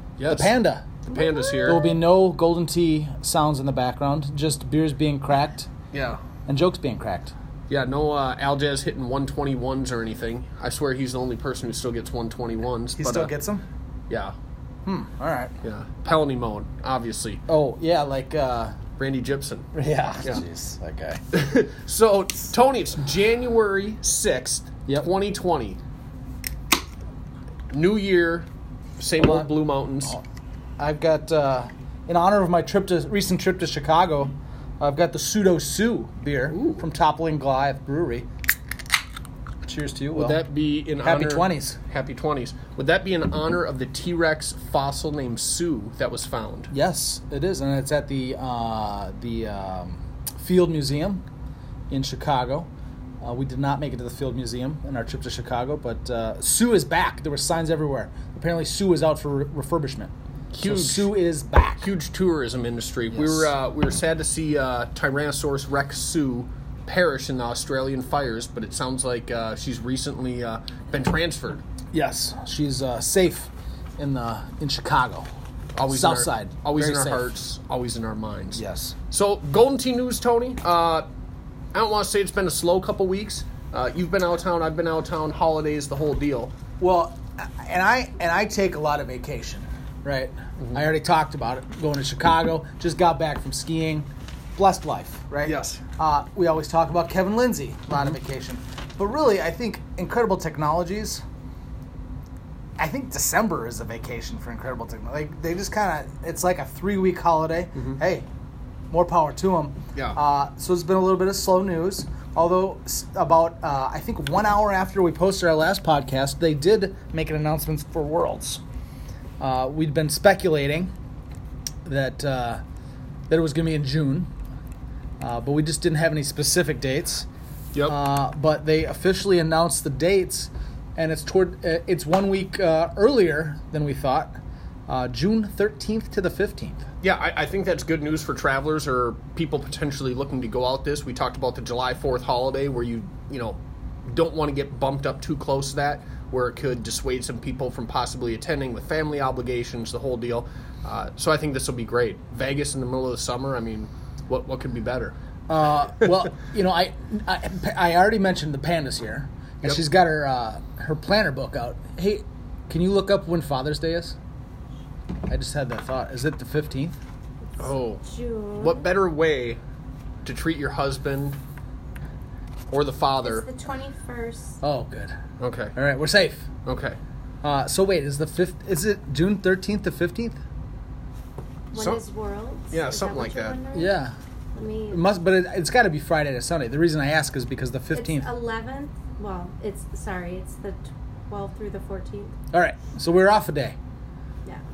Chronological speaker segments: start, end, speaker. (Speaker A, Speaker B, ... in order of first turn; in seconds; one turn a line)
Speaker A: 0.2-1.9
Speaker B: 0.3-1.0
Speaker B: 1.6-5.7
Speaker A: 5.9-6.2
Speaker B: 6.5-7.3
Speaker A: 7.7-13.3
Speaker B: 13.0-13.7
Speaker A: 14.1-14.4
Speaker B: 14.9-15.5
Speaker A: 15.6-17.4
Speaker B: 17.5-18.8
Speaker A: 19.0-19.7
Speaker B: 19.7-21.2
Speaker A: 21.3-25.8
Speaker A: 27.7-30.2
Speaker B: 29.2-29.5
Speaker B: 30.8-38.3
Speaker A: 36.5-36.9
Speaker B: 39.6-40.4
Speaker A: 40.1-46.7
Speaker B: 41.0-41.8
Speaker B: 46.7-51.2
Speaker B: 51.9-52.7
Speaker B: 53.2-60.1
Speaker A: 60.5-61.2
Speaker B: 60.6-61.9
Speaker A: 61.8-71.6
Speaker B: 63.1-63.5
Speaker B: 71.9-75.3
Speaker A: 75.8-81.1
Speaker B: 75.9-77.3
Speaker B: 78.5-79.0
Speaker A: 81.7-86.5
Speaker B: 86.8-101.2
Speaker A: 95.5-95.8
Speaker B: 102.8-108.3
Speaker B: 108.9-118.6
Speaker B: 119.4-120.9
Speaker B: 121.8-122.6
Speaker B: 123.3-124.3
Speaker B: 125.2-127.3
Speaker B: 127.9-134.3
Speaker B: 134.9-136.9
Speaker A: 137.0-155.2
Speaker B: 155.5-164.2
Speaker B: 165.3-167.0
Speaker C: 167.6-168.9
Speaker A: 167.6-168.0
Speaker A: 168.6-169.6
Speaker A: 170.2-171.4
Speaker A: 172.7-173.5
Speaker C: 173.2-174.6
Speaker B: 174.6-175.2
Speaker A: 175.4-175.7
Speaker B: 175.8-176.5
Speaker A: 176.7-177.0
Speaker B: 177.4-180.4
Speaker C: 181.7-184.0
Speaker A: 181.8-182.0
Speaker A: 182.7-183.6
Speaker B: 183.7-184.2
Speaker C: 184.6-185.0
Speaker B: 184.9-188.3
Speaker C: 187.9-192.4
Speaker B: 192.5-193.8